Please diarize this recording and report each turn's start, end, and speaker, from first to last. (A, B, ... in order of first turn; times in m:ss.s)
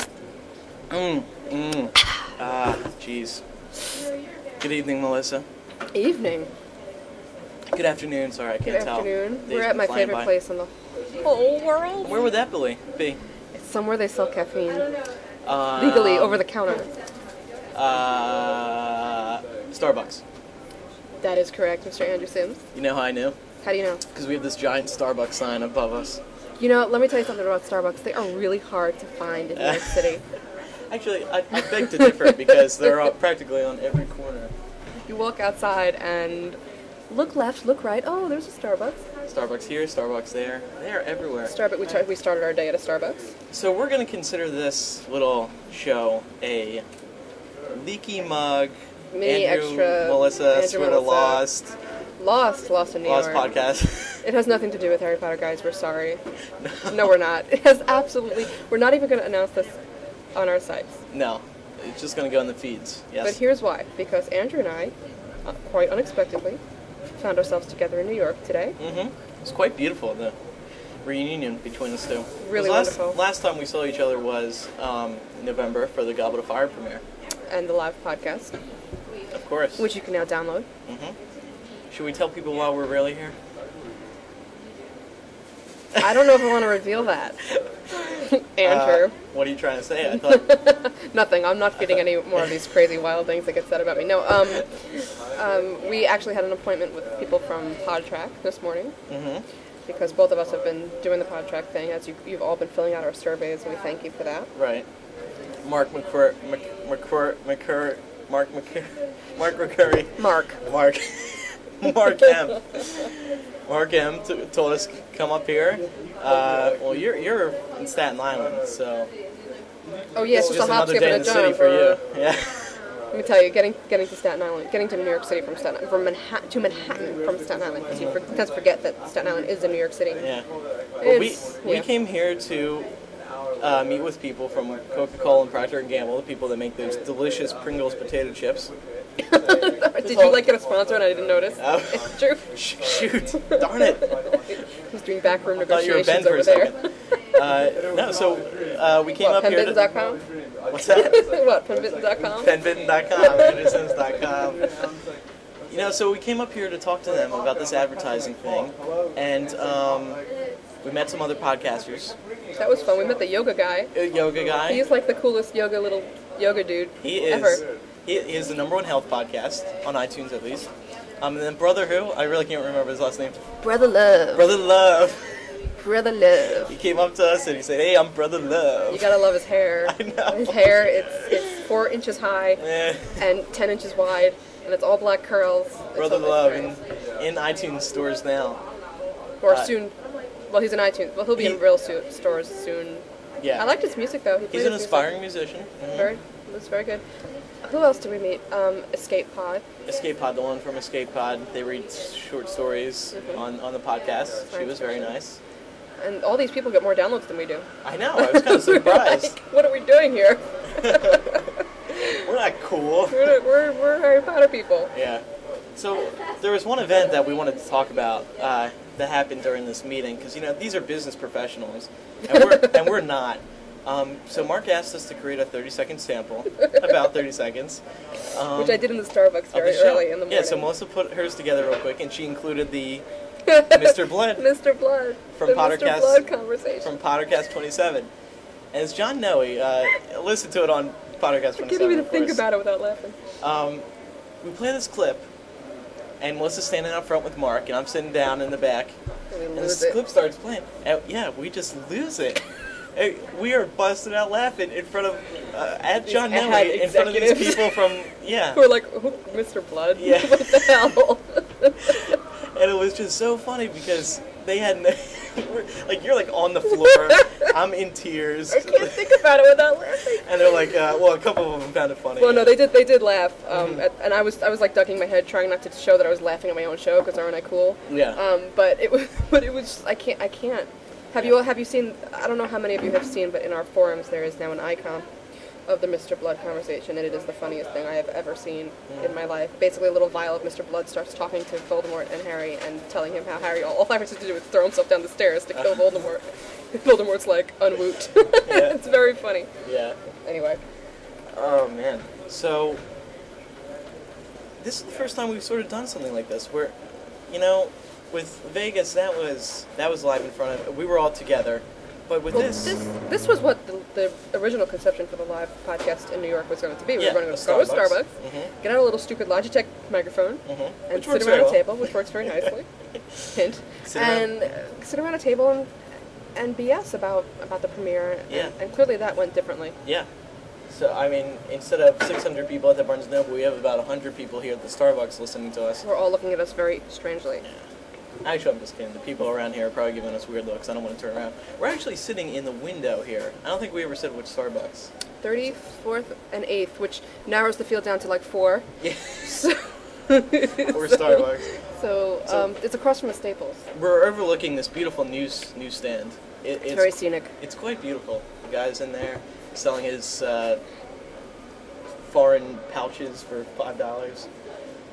0:00.9-0:03.4 A
0:04.6-0:05.4 A
0:05.9-0:06.5 B
0:07.7-0:10.3 A
0:08.6-0:12.2 B
0:12.0-0:13.2 A
0:13.5-0:14.9 B
0:15.4-0:16.4 A
0:15.7-0:16.9 B
0:17.8-0:20.2 A
0:21.2-0:22.6 B
0:22.7-0:23.4 A
0:23.6-0:24.0 B
0:24.1-0:26.2 A
0:26.6-0:30.2 B
0:29.6-0:30.1 A
0:30.9-0:34.5 A
0:32.0-0:32.4 B
0:35.1-0:36.6 B
0:37.1-0:39.0 B
0:39.3-0:41.5 A
0:41.5-0:43.2 B
0:43.5-0:46.8 A
0:47.7-0:51.7 A
0:49.1-0:51.4 B
0:52.2-0:53.5 B
0:53.0-0:54.2 A
0:54.2-0:56.2 B
0:56.6-0:57.1 A
0:56.9-0:59.8 B
1:00.3-1:01.0 B
1:01.1-1:03.4 A
1:03.2-1:06.6 B
1:07.2-1:08.8 B
1:08.8-1:10.4 A
1:11.0-1:17.0 A
1:12.4-1:13.2 B
1:17.5-1:18.6 B
1:19.3-1:19.9 A
1:19.8-1:20.7 B
1:20.9-1:21.2 A
1:21.9-1:23.4 A
1:26.0-1:27.4 B
1:28.0-1:29.1 B
1:28.6-1:30.5 A
1:30.1-1:39.0 B
1:39.1-1:39.4 A
1:39.9-1:44.5 B
1:44.6-1:44.9 A
1:45.6-1:53.1 A
1:50.2-1:50.6 B
1:53.7-1:59.1 A
2:00.1-2:02.0 B
2:00.3-2:02.8 A
2:03.1-2:10.2 B
2:07.9-2:08.2 A
2:10.2-2:10.5 A
2:11.0-2:11.9 B
2:11.0-2:12.9 A
2:13.6-2:18.7 A
2:19.3-2:22.5 B
2:20.0-2:20.5 A
2:21.6-2:24.1 A
2:23.4-2:26.7 B
2:25.6-2:29.8 A
2:29.2-2:30.2 B
2:30.7-2:31.2 A
2:30.8-2:32.6 B
2:32.4-2:34.7 A
2:35.7-2:40.2 A
2:40.8-2:42.2 A
2:42.6-2:43.9 B
2:43.9-2:44.8 A
2:44.6-2:47.6 B
2:47.0-2:50.7 A
2:51.2-2:53.4 A
2:53.6-2:54.5 B
2:54.4-2:55.4 A
2:55.8-2:56.7 B
2:56.6-2:59.2 A
2:58.9-3:02.6 B
2:59.8-3:01.4 A
3:02.6-3:03.2 A
3:03.2-3:06.8 B
3:06.0-3:08.6 A
3:09.4-3:09.9 B
3:09.4-3:09.8 A
3:10.5-3:13.0 B
3:11.4-3:11.6 A
3:13.4-3:13.7 A
3:13.6-3:15.2 B
3:14.5-3:16.1 A
3:15.9-3:17.0 B
3:17.6-3:19.6 B
3:19.9-3:25.4 A
3:23.1-3:23.4 B
3:24.5-3:25.1 B
3:26.0-3:32.2 B
3:27.8-3:29.4 A
3:30.8-3:31.4 A
3:32.2-3:33.4 A
3:33.1-3:34.9 B
3:34.9-3:35.2 A
3:35.8-3:48.8 A
3:48.5-3:50.7 B
3:49.5-3:53.0 A
3:53.5-3:56.9 B
3:53.7-3:54.5 A
3:55.4-3:56.2 A
3:56.8-3:58.1 A
3:58.7-4:02.4 A
4:01.6-4:03.2 B
4:03.4-4:03.9 A
4:04.4-4:05.3 A
4:06.2-4:09.0 A
4:09.3-4:10.0 B
4:09.6-4:12.4 A
4:13.0-4:18.6 A
4:16.0-4:17.9 B
4:18.5-4:22.0 B
4:20.0-4:20.9 A
4:22.5-4:29.0 A
4:28.5-4:30.3 B
4:30.2-4:32.6 A
4:32.2-4:45.1 B
4:33.5-4:33.8 A
4:37.9-4:38.2 A
4:45.7-4:59.5 B
4:58.5-4:58.8 A
4:59.6-5:00.0 A
5:00.2-5:00.6 B
5:01.3-5:02.8 A
5:04.6-5:06.8 A
5:07.3-5:12.7 A
5:12.3-5:18.1 B
5:17.0-5:18.5 A
5:18.6-5:22.7 B
5:20.5-5:21.8 A
5:23.3-5:25.7 B
5:23.9-5:24.3 A
5:26.4-5:29.8 B
5:30.7-5:35.8 A
5:35.8-5:37.4 B
5:38.2-5:44.9 A
5:45.2-5:48.7 B
5:48.8-5:49.4 A
5:49.2-5:51.3 B
5:50.6-5:51.5 A
5:51.8-5:53.6 B
5:53.7-6:00.6 A
5:56.7-5:57.3 B
6:02.1-6:04.3 A